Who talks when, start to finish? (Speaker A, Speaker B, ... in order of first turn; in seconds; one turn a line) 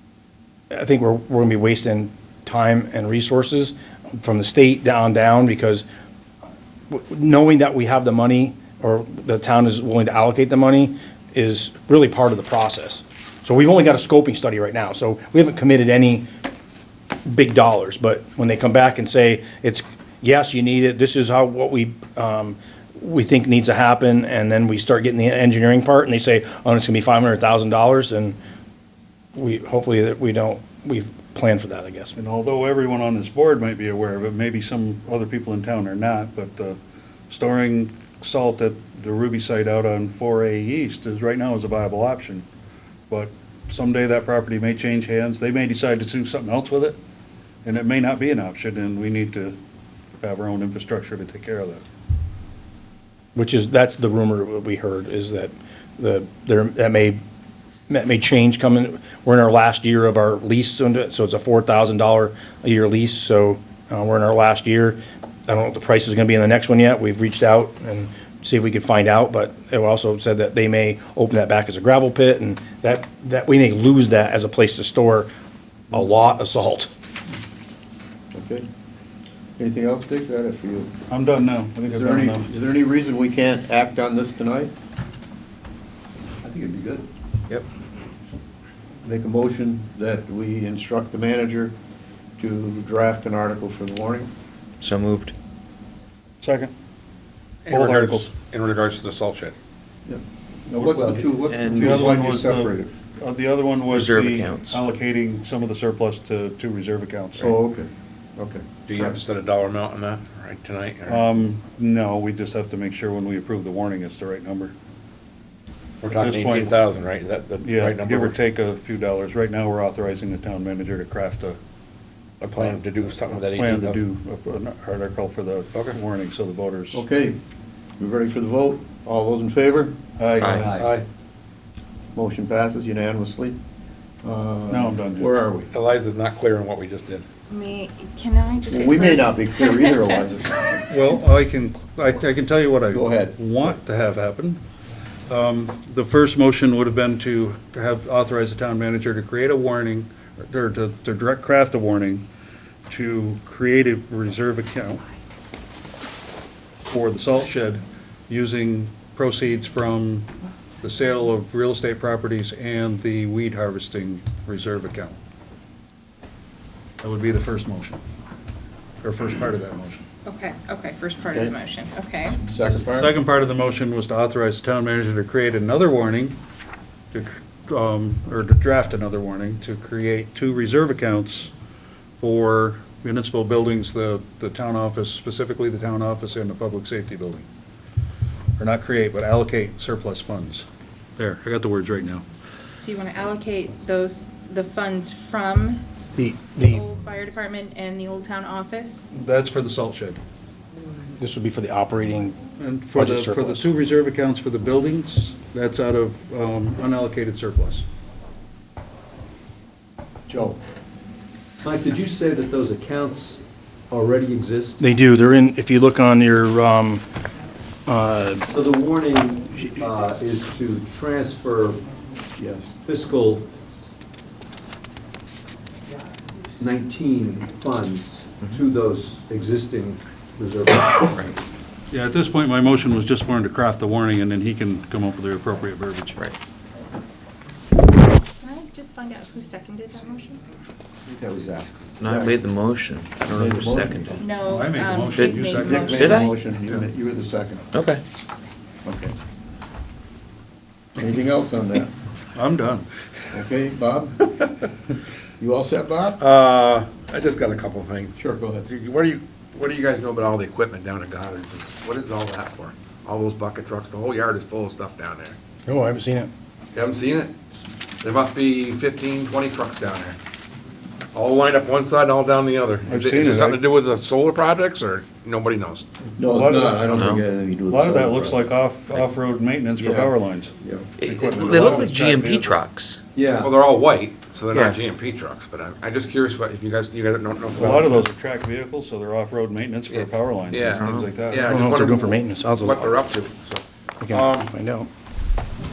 Speaker A: 0.7-5.8
Speaker A: 6.9-16.2
Speaker A: 17.3-28.4
Speaker A: 29.4-32.1
Speaker B: 32.2-36.8
Speaker B: 37.3-42.5
Speaker B: 43.1-47.0
Speaker B: 47.6-49.6
Speaker B: 50.2-51.8
Speaker A: 53.4-57.2
Speaker A: 57.9-75.3
Speaker A: 75.9-76.9
Speaker C: 78.3-78.7
Speaker C: 79.6-81.0
Speaker B: 81.1-82.5
Speaker C: 81.9-84.7
Speaker D: 86.4-87.1
Speaker C: 89.0-91.8
Speaker C: 92.4-94.3
Speaker E: 94.8-95.3
Speaker B: 96.4-96.7
Speaker F: 97.7-99.5
Speaker B: 97.7-98.3
Speaker C: 100.1-102.9
Speaker B: 100.8-101.1
Speaker D: 100.9-101.3
Speaker E: 101.5-102.2
Speaker B: 101.6-107.6
Speaker E: 103.9-104.8
Speaker C: 107.4-109.2
Speaker F: 108.9-111.3
Speaker B: 111.1-114.8
Speaker F: 116.0-118.4
Speaker B: 116.1-116.8
Speaker B: 117.6-121.6
Speaker F: 122.4-124.0
Speaker B: 122.6-127.0
Speaker C: 126.9-127.4
Speaker C: 128.0-130.0
Speaker B: 130.2-130.7
Speaker E: 130.4-130.7
Speaker D: 130.5-130.9
Speaker F: 130.7-131.1
Speaker C: 132.2-133.6
Speaker C: 134.2-135.7
Speaker B: 134.7-135.3
Speaker F: 135.7-137.3
Speaker G: 137.5-140.2
Speaker C: 138.7-140.9
Speaker B: 140.9-144.6
Speaker C: 142.9-143.4
Speaker B: 145.3-152.3
Speaker B: 152.9-155.0
Speaker B: 156.9-160.3
Speaker B: 160.8-165.2
Speaker B: 167.0-168.0
Speaker B: 169.0-170.0
Speaker G: 170.2-172.4
Speaker C: 172.3-173.2
Speaker B: 172.7-176.4
Speaker B: 177.1-181.5
Speaker B: 182.2-187.5
Speaker B: 188.6-190.7
Speaker B: 191.2-192.2
Speaker G: 192.8-195.8
Speaker A: 196.2-196.8
Speaker G: 196.6-199.1
Speaker B: 199.1-200.2
Speaker A: 201.2-202.4
Speaker B: 202.6-207.9
Speaker A: 202.9-203.6
Speaker C: 210.3-210.6
Speaker D: 211.6-214.8
Speaker A: 214.8-217.0
Speaker A: 217.9-218.5
Speaker D: 218.5-221.8
Speaker C: 222.4-222.7
Speaker D: 222.8-223.5
Speaker D: 226.6-231.3
Speaker B: 231.9-236.2
Speaker G: 238.4-240.4
Speaker C: 241.1-242.4
Speaker E: 242.0-244.1
Speaker C: 243.2-244.3
Speaker G: 244.2-246.3
Speaker B: 244.4-246.0
Speaker C: 245.5-247.7
Speaker E: 246.0-246.3
Speaker E: 247.7-248.0
Speaker C: 248.8-249.2
Speaker C: 250.9-251.9
Speaker B: 252.3-252.9
Speaker C: 253.3-254.6
Speaker C: 255.4-256.2
Speaker F: 256.2-265.4
Speaker C: 258.2-258.7
Speaker A: 265.7-266.3
Speaker F: 266.8-267.4
Speaker F: 268.0-270.2
Speaker F: 271.1-275.8
Speaker B: 272.9-273.6
Speaker C: 276.2-278.5
Speaker B: 276.3-282.6
Speaker E: 277.0-277.2
Speaker C: 279.8-280.9
Speaker E: 281.0-283.0
Speaker D: 283.1-283.6
Speaker F: 283.4-288.1
Speaker B: 287.6-291.7
Speaker F: 289.9-294.5
Speaker A: 291.5-292.9
Speaker A: 294.0-294.9